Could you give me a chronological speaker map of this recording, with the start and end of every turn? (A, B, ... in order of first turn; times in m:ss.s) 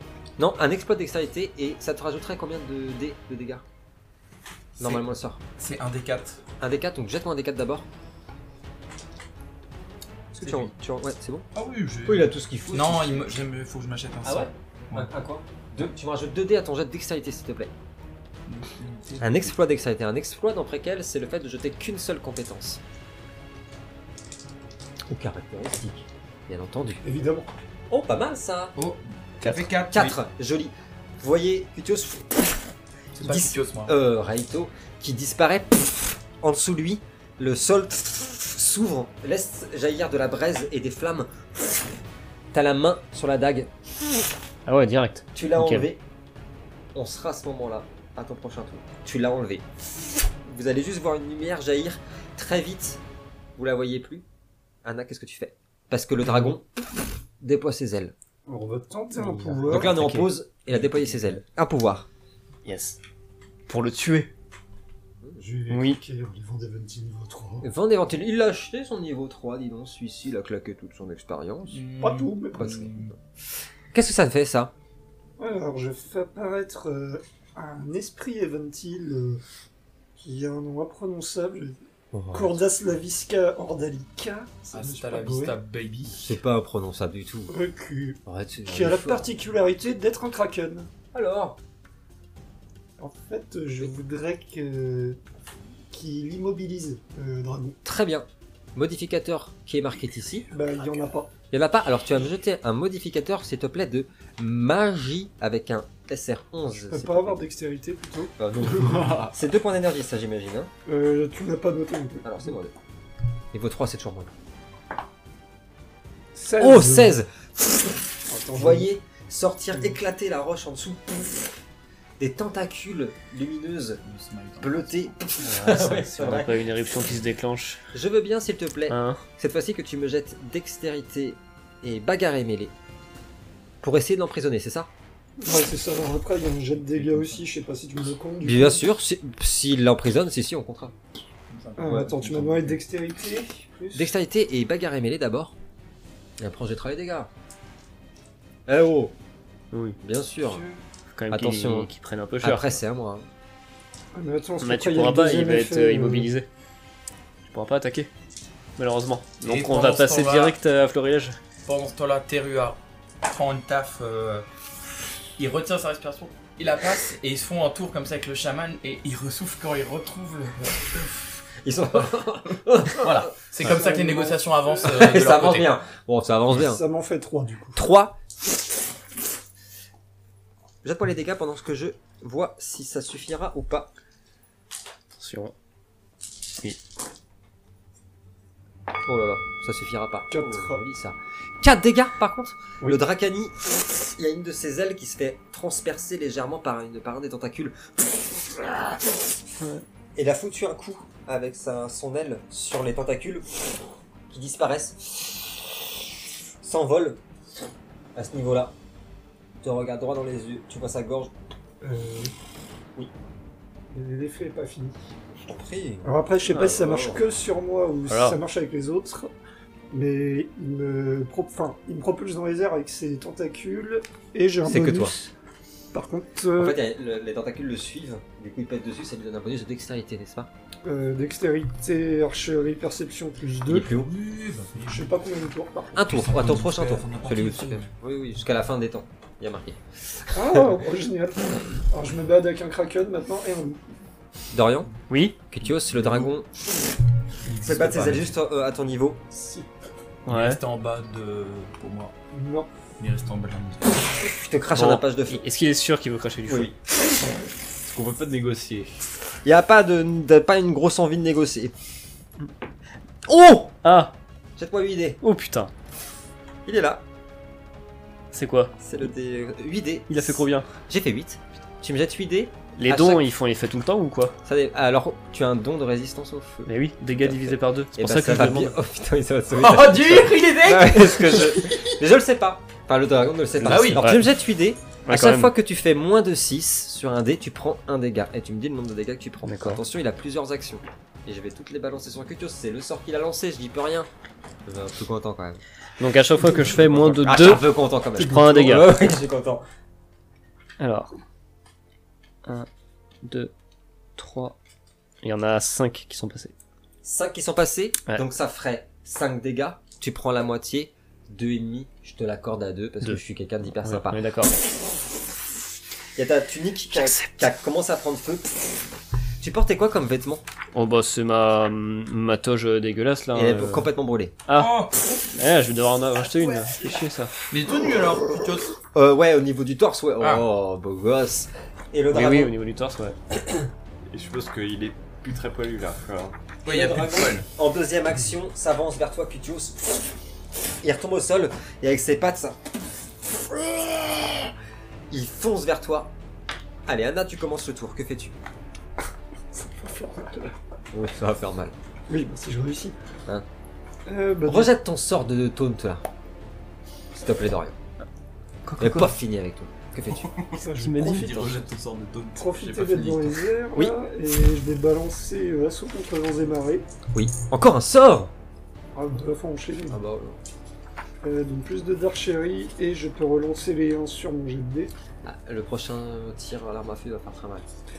0:00.4-0:03.6 A
0:04.8-0:06.4 B
0:04.8-0:05.4 A
0:06.6-0:07.9 A
0:10.3-0:11.4 A
0:10.4-0:10.7 B
0:11.6-0:15.1 B
0:12.1-0:13.4 A
0:14.2-0:17.7 A
0:18.5-0:19.5 B
0:19.2-0:22.8 A
0:25.1-0:27.0 A
0:27.0-0:27.5 C
0:27.9-0:28.8 A
0:28.8-0:30.2 B
0:29.4-0:32.6 A
0:33.2-0:33.9 B
0:33.2-0:41.8 A
0:42.5-0:43.7 A
0:44.7-0:45.9 D
0:45.4-0:46.0 A
0:47.0-0:49.7 A
0:50.4-0:53.0 A
0:53.6-0:54.2 A
0:54.8-0:56.7 A
0:57.4-0:58.1 A
0:58.5-0:59.9 C
0:59.2-1:00.3 D
0:59.7-1:02.1 A
1:02.6-1:03.0 D
1:03.7-1:04.3 D
1:05.4-1:07.7 C
1:05.7-1:06.0 D
1:07.6-1:11.8 A
1:11.7-1:13.1 B
1:12.0-1:12.8 C
1:12.6-1:13.2 A
1:13.9-1:14.7 A
1:15.4-1:19.4 C
1:20.2-1:21.8 C
1:22.1-1:22.6 A
1:22.3-1:25.6 C
1:24.7-1:26.2 B
1:26.1-1:27.5 A
1:27.5-1:30.9 C
1:28.3-1:29.3 A
1:31.1-1:31.6 A
1:33.0-1:35.2 C
1:35.9-1:37.8 C
1:37.8-1:40.5 A
1:40.5-1:41.3 C
1:41.5-1:47.4 A
1:46.7-1:49.0 C
1:48.4-1:50.7 A
1:48.9-1:49.3 E
1:50.9-1:52.5 C
1:52.2-1:52.7 A
1:53.5-1:54.3 A
1:56.3-1:57.2 C
1:56.6-1:58.0 A
1:58.3-1:58.9 C
1:58.5-2:01.5 A
2:02.2-2:04.0 A
2:04.0-2:04.9 B
2:04.6-2:06.8 A
2:05.4-2:07.8 D
2:07.9-2:12.7 A
2:08.9-2:09.3 D
2:13.8-2:14.9 A
2:15.4-2:18.8 C
2:16.9-2:17.4 B
2:18.4-2:20.9 A
2:21.5-2:22.8 B
2:21.8-2:24.1 C
2:23.9-2:25.6 A
2:26.4-2:27.3 A
2:28.7-2:29.1 A
2:29.7-2:30.0 D
2:30.0-2:30.6 A
2:30.5-2:30.8 C
2:31.2-2:32.8 D
2:31.3-2:31.9 A
2:32.4-2:33.3 A
2:34.1-2:36.3 C
2:34.6-2:36.5 D
2:37.4-2:38.1 D
2:38.8-2:41.4 D
2:39.4-2:40.6 B
2:41.6-2:44.5 B
2:45.4-2:51.1 B
2:51.6-2:53.3 A
2:52.0-2:55.7 B
2:53.6-2:55.1 C
2:54.8-2:56.8 A
2:56.5-2:57.9 C
2:57.8-2:58.2 A
3:00.8-3:03.9 A
3:05.2-3:05.5 D
3:09.0-3:19.1 A
3:10.3-3:10.8 C
3:20.2-3:23.8 A
3:24.3-3:27.2 A
3:28.2-3:28.8 A
3:29.6-3:31.3 A
3:31.8-3:32.3 C
3:33.9-3:35.0 C
3:35.4-3:37.2 A
3:36.0-3:39.3 C
3:38.1-3:38.4 D
3:39.9-3:45.3 C
3:44.6-3:45.2 A
3:45.9-3:46.8 C
3:46.6-3:50.5 A
3:50.8-3:54.0 C
3:53.7-3:54.1 A
3:53.9-3:55.1 B
3:54.9-3:56.1 C
3:55.9-4:00.7 A
3:56.1-3:57.9 B
4:00.4-4:03.8 C
4:04.5-4:04.9 A
4:05.1-4:05.4 D
4:05.5-4:06.5 A
4:07.5-4:08.3 B
4:07.6-4:09.2 A
4:09.3-4:09.7 C
4:10.3-4:10.6 D
4:10.3-4:12.1 B
4:12.3-4:12.7 C
4:13.0-4:14.0 B
4:14.2-4:15.4 A
4:14.7-4:16.7 D
4:16.5-4:16.8 A
4:17.8-4:18.9 E
4:19.4-4:21.7 A
4:23.3-4:23.8 A
4:23.8-4:24.1 D
4:24.6-4:25.2 A
4:25.2-4:25.7 D
4:26.7-4:27.0 A
4:28.3-4:28.7 D
4:28.8-4:33.3 A
4:30.1-4:30.7 D
4:32.8-4:34.4 D
4:34.4-4:54.1 A
4:36.7-4:38.8 D
4:39.6-4:42.0 B
4:43.6-4:44.3 D
4:43.6-4:44.1 B
4:45.0-4:45.5 D
4:49.4-4:49.8 D
4:54.7-4:55.6 A
4:56.0-4:59.0 D
4:56.4-4:56.8 C
4:57.0-4:59.6 A
4:58.3-4:58.8 C
5:00.8-5:01.1 D
5:03.2-5:03.5 D
5:04.2-5:04.6 D
5:05.2-5:06.5 D
5:07.0-5:14.2 A
5:13.8-5:14.5 D
5:16.2-5:18.8 A
5:19.4-5:20.4 A
5:20.8-5:23.9 D
5:23.3-5:24.4 A
5:24.5-5:24.8 D
5:24.6-5:24.9 B
5:25.4-5:27.3 D
5:27.5-5:28.8 B
5:28.9-5:32.5 A
5:30.2-5:30.5 B
5:32.1-5:33.2 D
5:34.1-5:36.4 E
5:36.6-5:37.5 B
5:36.6-5:40.0 A
5:40.8-5:42.6 A
5:43.5-5:44.5 A
5:45.1-5:46.1 A
5:46.9-5:48.4 A
5:49.5-5:50.5 C
5:50.9-5:51.7 A
5:52.1-5:53.0 C
5:54.1-5:54.7 C
5:54.4-5:56.0 A
5:57.1-5:57.8 A
5:58.8-5:59.0 D
5:58.8-6:00.3 A
6:00.1-6:03.5 B
6:00.6-6:01.6 C
6:00.8-6:01.4 D
6:02.4-6:06.9 C
6:07.1-6:08.3 A
6:08.9-6:10.0 C
6:09.9-6:10.4 A
6:11.2-6:14.9 C
6:15.2-6:17.7 A